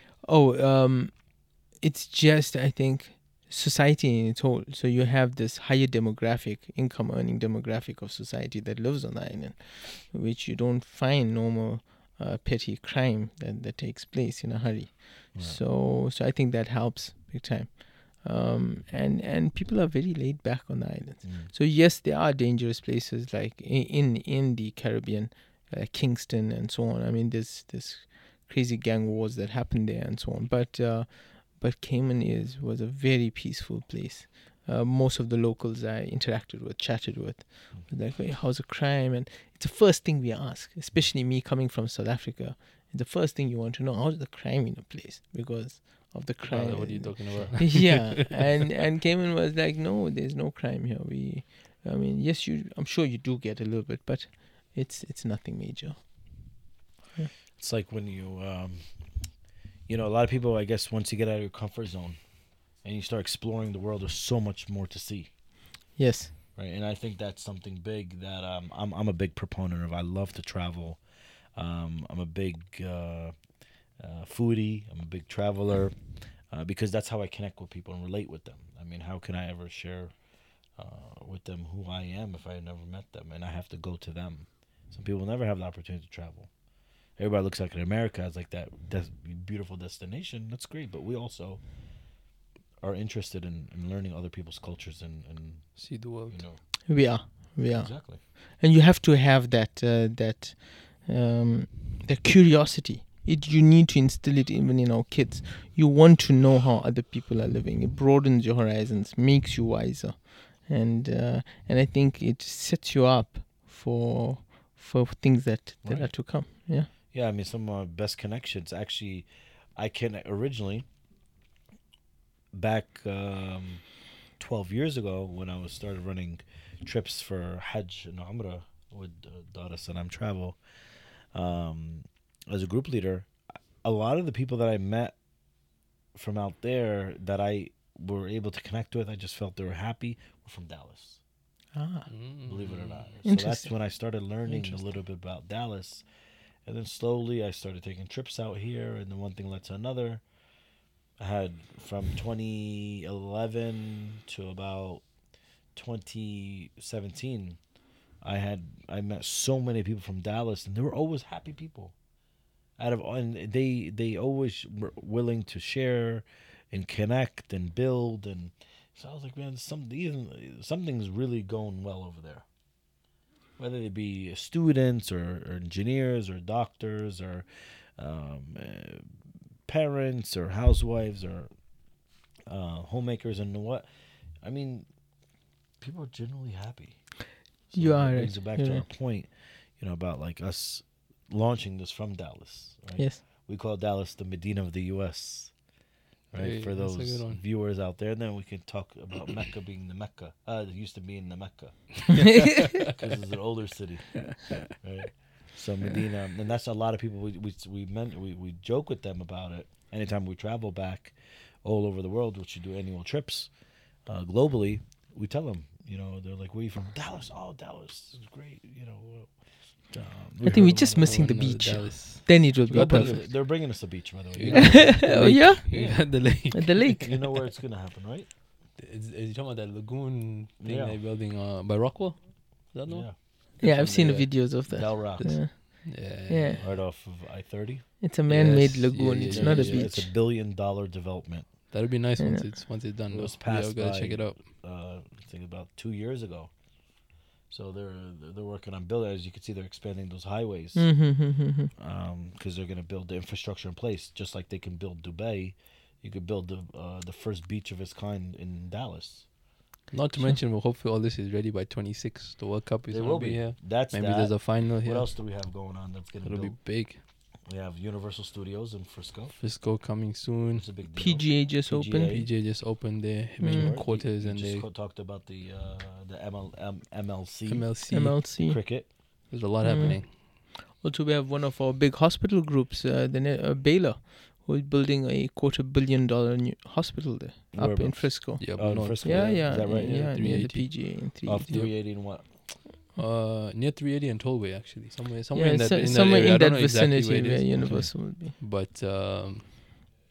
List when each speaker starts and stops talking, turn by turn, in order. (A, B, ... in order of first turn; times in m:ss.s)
0:00.2-0:56.6 A
0:15.3-0:15.6 B
0:21.2-0:21.5 B
0:46.4-0:48.5 C
0:57.6-1:05.3 B
1:06.0-1:06.3 A
1:06.6-1:26.5 B
1:27.1-1:31.7 B
1:32.8-1:38.2 B
1:35.8-1:36.4 C
1:36.8-1:56.9 A
1:55.8-1:56.4 B
1:56.9-2:00.9 B
2:02.5-2:15.2 B
2:16.1-2:21.2 B
2:21.7-2:22.1 A
2:22.1-2:23.1 C
2:22.4-2:26.1 B
2:23.2-2:25.0 A
2:26.6-2:30.3 B
2:31.2-2:35.2 B
2:35.7-2:37.7 B
2:38.2-2:42.0 B
2:42.8-2:52.5 B
2:53.6-3:01.7 B
3:02.5-3:04.9 B
3:05.8-3:15.6 B
3:07.7-3:08.9 A
3:13.0-3:13.2 A
3:16.3-3:41.8 B
3:16.4-3:17.4 C
3:40.4-3:43.2 A
3:40.5-3:47.2 C
3:42.7-3:48.3 B
3:44.5-3:45.9 A
3:46.5-3:47.0 A
3:48.8-3:56.8 C
3:50.6-3:51.0 B
3:52.9-3:53.2 B
3:53.6-3:56.6 A
3:54.7-3:55.4 B
3:56.6-3:58.0 B
3:58.0-4:00.1 A
3:58.3-4:00.0 C
3:59.2-4:01.6 B
4:01.7-4:04.4 C
4:02.2-4:02.5 A
4:03.1-4:06.6 B
4:07.5-4:11.0 B
4:10.8-4:11.7 A
4:11.8-4:19.3 B
4:19.9-4:25.6 C
4:22.9-4:29.5 B
4:26.2-4:27.0 C
4:29.3-4:30.7 C
4:30.5-4:32.3 B
4:31.0-4:32.3 A
4:32.0-4:34.7 C
4:33.4-4:33.8 A
4:33.5-4:39.0 B
4:37.5-4:38.3 C
4:37.9-4:51.6 A
4:39.3-4:40.2 C
4:47.5-4:50.2 B
4:48.4-4:59.7 C
4:51.2-4:52.5 B
4:55.3-4:58.4 A